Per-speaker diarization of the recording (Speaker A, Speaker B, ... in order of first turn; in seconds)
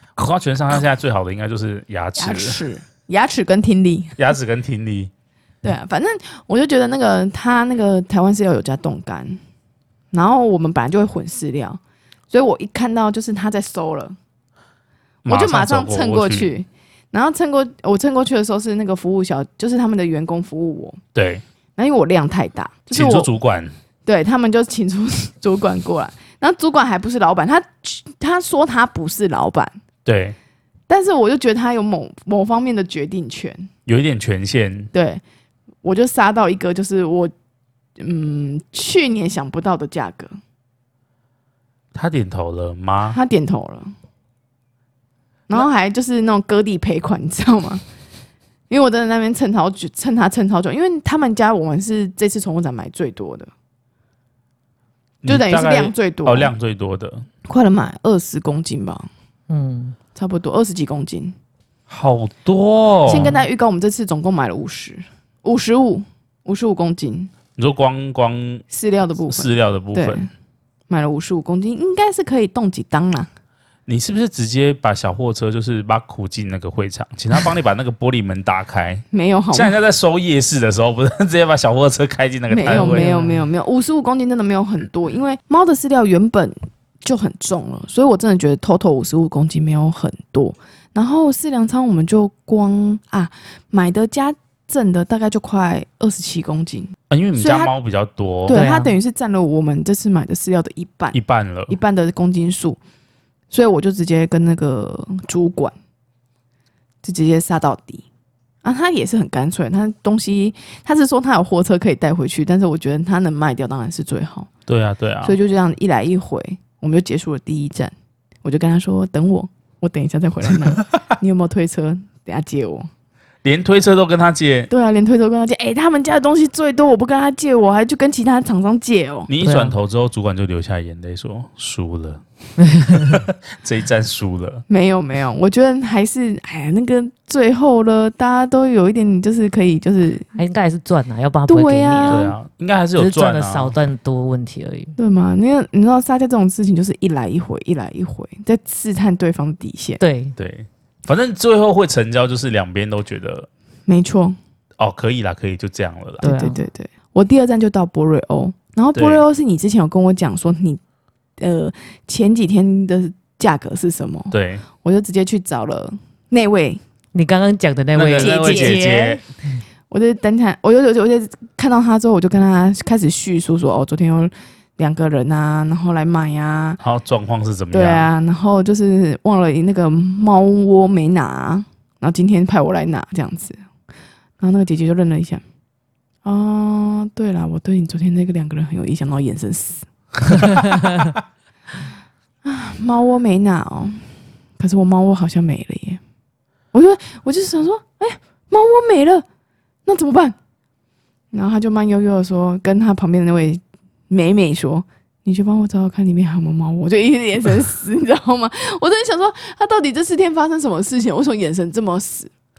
Speaker A: 0.1-2.6, 4.2-5.1, 15.2-16.5, 21.1-21.4, 22.9-23.7, 30.1-30.4, 33.9-34.9, 41.9-43.2, 55.2-57.3, 61.9-63.3, 67.6-68.6, 69.3-70.3, 73.9-83.1, 97.1-98.6, 101.1-101.8, 114.7-115.4, 123.4-124.7, 129.3-132.2, 132.8-134.6, 142.1-143.8, 150.4-153.5, 154.8-156.2, 158.9-159.2, 164.3-164.7, 167.9-169.2, 176.8-178.1
Speaker B: 2.2-4.2, 5.6-9.4, 10.1-11.8, 12.3-14.2, 15.3-21.0, 21.8-23.3, 24.1-29.8, 30.9-33.7, 34.9-35.2, 35.8-37.3, 38.0-40.4, 43.1-43.9, 45.5-47.8, 48.7-53.5, 55.2-56.5, 57.5-59.1, 60.1-61.4, 63.0-67.3, 68.7-70.3, 70.9-73.3, 79.1-79.7, 82.5-97.7, 98.5-101.2, 101.7-102.8, 103.5-105.7, 107.0-108.0, 108.6-114.5, 115.2-117.9, 118.4-122.9, 124.7-129.3, 134.7-140.3, 141.5-142.3, 145.0-150.0, 153.9-154.4, 156.2-160.8, 161.4-166.8, 168.2-169.1, 169.9-176.8, 177.7-183.6, 184.4-185.4, 186.2-189.9, 192.4-196.0, 196.7-199.2, 199.8-200.3, 201.3-212.3
Speaker C: 59.5-60.0, 63.1-63.4, 82.7-83.5, 98.5-98.9, 129.4-129.8, 132.8-133.1, 140.3-142.3, 143.0-144.9, 150.0-150.3, 156.2-156.6, 167.1-169.2